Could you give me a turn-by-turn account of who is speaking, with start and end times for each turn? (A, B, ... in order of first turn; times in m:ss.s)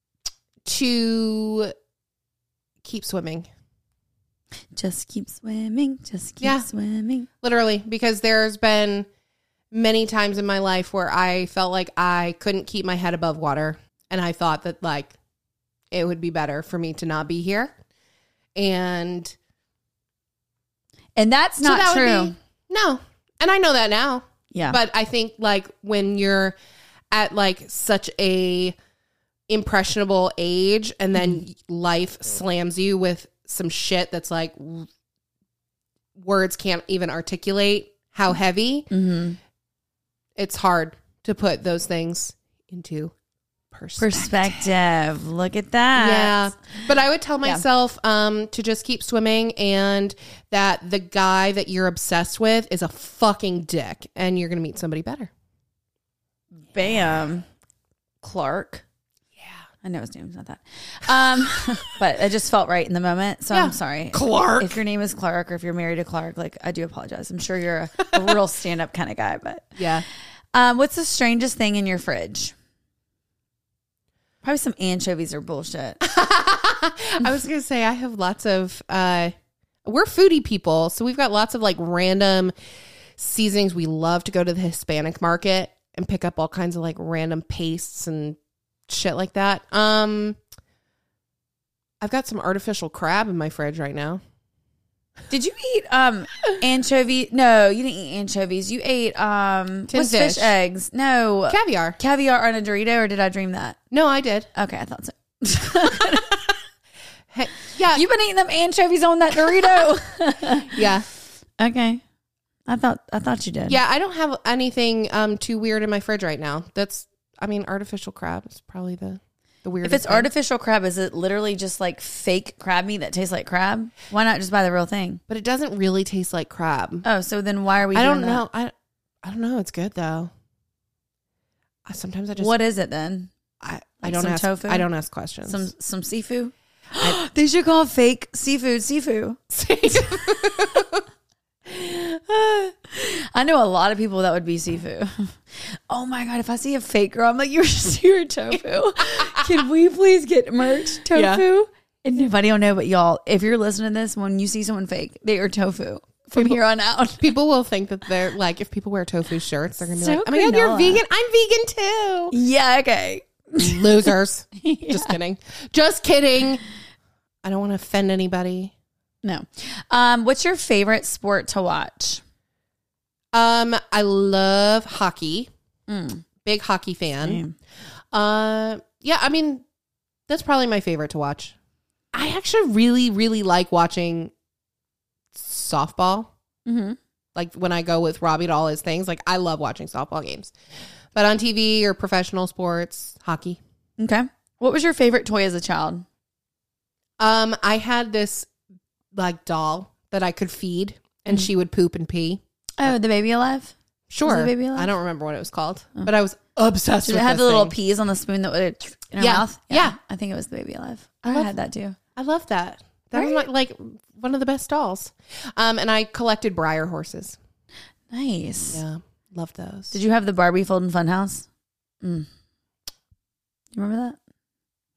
0:00.6-0:01.7 A
0:02.8-0:03.5 A
0:04.8-0:07.3 B
0:06.4-0:06.7 A
0:07.4-0:09.1 A
0:09.7-0:15.1 A
0:15.9-0:17.7 A
0:18.5-0:19.3 A
0:21.2-0:22.3 B
0:21.6-0:26.6 A
0:24.5-0:24.8 B
0:27.1-0:28.8 A
0:29.5-0:34.9 A
0:36.2-0:38.9 A
0:38.9-0:39.4 B
0:40.4-0:43.1 A
0:43.7-0:44.7 A
0:44.0-0:46.5 B
0:46.0-0:55.3 A
0:56.6-0:57.4 B
0:58.2-0:58.8 B
0:59.8-1:09.9 B
1:03.5-1:04.8 A
1:09.8-1:10.0 A
1:10.5-1:12.5 B
1:14.4-1:16.0 B
1:16.0-1:22.5 A
1:23.2-1:30.4 A
1:32.0-1:34.2 A
1:35.3-1:43.8 B
1:39.9-1:40.5 A
1:41.5-1:42.0 A
1:43.9-1:44.5 A
1:44.5-1:46.5 B
1:47.3-1:48.0 A
1:47.9-1:50.8 B
1:50.7-1:51.0 A
1:51.6-1:52.0 B
1:52.7-1:53.8 B
1:53.7-2:00.3 A
1:59.8-2:05.2 B
2:05.3-2:07.0 A
2:07.0-2:08.4 B
2:07.9-2:08.7 A
2:09.2-2:10.3 A
2:11.8-2:12.6 A
2:12.4-2:13.3 B
2:13.6-2:15.7 A
2:14.0-2:14.8 B
2:15.5-2:20.5 B
2:19.5-2:21.0 A
2:21.7-2:37.4 B
2:28.5-2:29.5 A
2:31.1-2:31.4 A
2:37.2-2:42.3 A
2:39.9-2:41.0 B
2:42.3-2:45.1 B
2:43.6-2:46.6 A
2:47.4-2:48.7 A
2:49.2-2:52.2 B
2:53.3-2:55.5 A
2:55.9-2:56.2 B
2:56.4-2:57.4 A
2:57.2-2:57.5 B
2:58.1-2:59.6 A
3:00.3-3:01.5 A
3:02.1-3:04.3 A
3:05.3-3:06.3 A
3:06.6-3:07.0 B
3:07.3-3:10.5 A
3:11.1-3:13.6 A
3:14.0-3:16.0 B
3:17.2-3:18.5 A
3:19.1-3:22.4 A
3:22.8-3:24.9 B
3:24.1-3:27.7 A
3:27.0-3:32.0 B
3:29.2-3:30.0 A
3:32.2-3:37.4 A
3:33.1-3:33.4 B
3:38.1-3:38.8 B
3:38.7-3:40.0 A
3:39.9-3:41.5 B
3:42.0-3:42.3 B
3:43.7-3:44.2 B